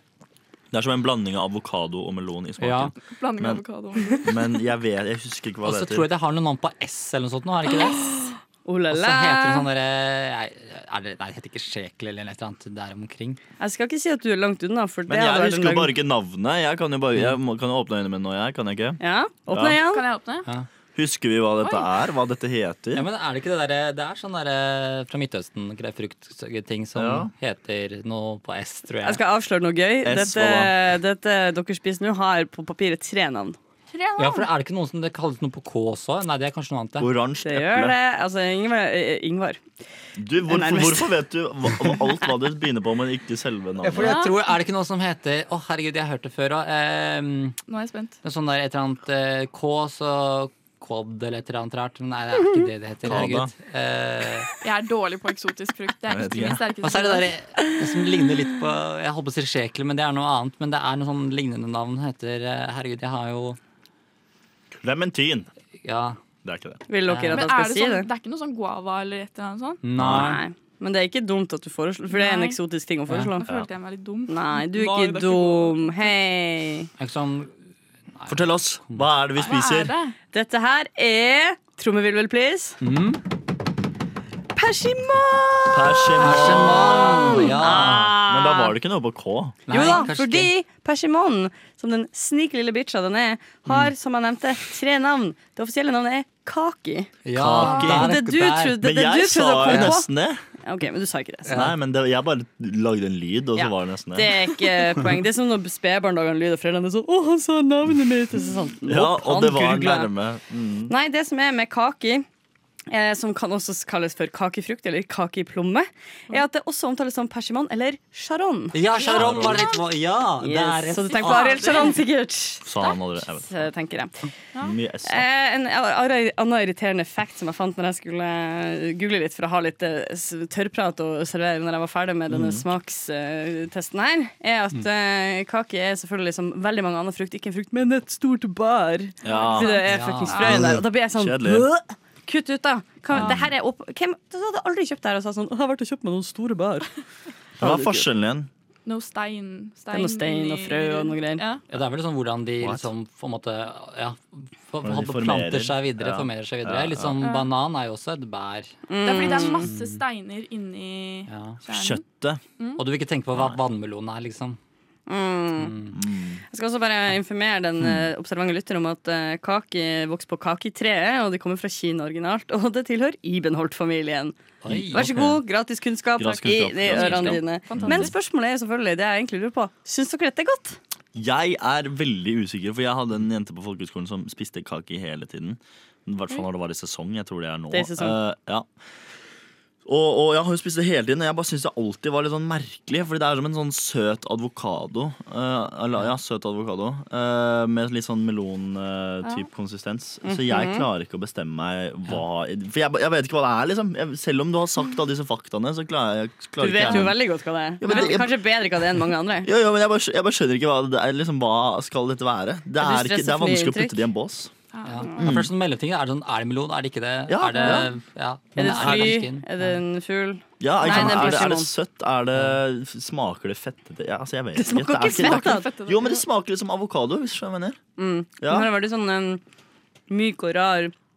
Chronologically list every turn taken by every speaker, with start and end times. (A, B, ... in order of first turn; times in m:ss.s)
0:00.7-0:03.6 A
0:02.6-0:02.9 B
0:03.0-0:04.3 C
0:04.2-0:06.1 A
0:05.6-0:08.1 B
0:07.9-0:09.6 D
0:08.9-0:13.4 B
0:13.6-0:16.0 D
0:15.1-0:19.8 A
0:19.0-0:20.0 D
0:19.8-0:20.5 C
0:20.9-0:23.1 A
0:22.9-0:29.2 B
0:26.9-0:27.3 A
0:29.0-0:33.6 D
0:30.0-0:30.7 A
0:33.9-0:34.5 C
0:34.2-0:37.1 B
0:37.0-0:38.0 A
0:37.4-0:39.6 D
0:40.2-0:44.2 A
0:40.5-0:41.1 D
0:43.8-0:47.6 B
0:44.0-0:44.4 C
0:47.7-0:48.2 C
0:48.2-0:54.5 B
0:53.0-0:53.5 A
0:54.6-0:57.3 C
0:56.1-0:56.7 A
0:56.8-1:03.6 B
1:04.8-1:05.5 A
1:05.8-1:06.2 B
1:06.4-1:06.8 A
1:06.9-1:08.1 D
1:07.1-1:07.5 B
1:07.3-1:09.8 C
1:09.8-1:10.4 B
1:10.0-1:10.4 A
1:10.0-1:13.5 D
1:12.1-1:12.6 C
1:13.4-1:16.1 C
1:14.3-1:16.9 D
1:17.0-1:17.5 B
1:18.2-1:19.0 B
1:18.3-1:19.9 A
1:19.4-1:20.1 C
1:20.3-1:22.8 D
1:22.8-1:23.2 B
1:24.5-1:28.8 D
1:25.7-1:29.7 A
1:26.2-1:28.0 B
1:29.7-1:30.5 B
1:29.7-1:37.1 D
1:29.7-1:30.0 C
1:37.2-1:38.8 B
1:37.3-1:40.4 A
1:37.7-1:40.1 D
1:39.6-1:40.0 B
1:40.6-1:41.6 D
1:41.5-1:41.7 B
1:41.5-1:44.6 A
1:43.6-1:50.1 D
1:48.9-1:50.9 A
1:50.9-1:52.2 D
1:52.9-1:58.8 D
1:58.7-2:01.9 B
1:59.0-1:59.8 C
1:59.1-1:59.7 A
2:00.4-2:02.7 D
2:01.0-2:02.0 C
2:02.6-2:03.7 A
2:03.4-2:04.3 D
2:04.6-2:05.3 A
2:05.0-2:26.9 D
2:12.3-2:12.6 A
2:19.2-2:19.7 A
2:19.2-2:20.8 C
2:19.8-2:20.6 B
2:20.4-2:21.7 A
2:23.1-2:23.5 A
2:27.6-2:28.1 D
2:27.6-2:28.5 A
2:28.8-2:31.6 C
2:29.9-2:31.4 D
2:31.7-2:40.0 B
2:32.6-2:32.9 A
2:34.8-2:37.2 A
2:37.2-2:37.5 C
2:38.9-2:39.7 D
2:39.0-2:42.0 C
2:41.3-2:41.6 B
2:41.7-2:42.4 A
2:42.8-2:44.6 B
2:43.3-2:43.6 A
2:45.1-2:45.8 D
2:45.6-2:45.9 B
2:45.9-2:46.4 A
2:46.5-2:54.3 D
2:54.6-2:55.4 B
2:54.7-2:55.3 A
2:54.9-3:00.8 D
2:56.2-2:58.1 A
2:56.9-2:58.1 C
3:01.1-3:08.7 A
3:07.7-3:08.2 D
3:09.8-3:27.2 A
3:20.2-3:20.8 D
3:26.6-3:29.5 D
3:27.8-3:28.4 A
3:27.9-3:28.1 C
3:29.4-3:34.5 A
3:32.8-3:34.0 D
3:34.7-3:35.3 C
3:34.8-3:39.8 B
3:35.2-3:35.5 A
3:37.3-3:37.9 A
3:37.6-3:37.8 D
3:38.6-3:41.7 D
3:38.6-3:39.2 A
3:40.6-3:47.8 A
3:40.8-3:41.2 C
3:42.3-3:42.6 B
3:44.6-3:45.7 D
3:45.1-3:46.2 C
3:48.0-3:49.4 D
3:48.4-3:48.7 A
3:50.1-3:50.9 D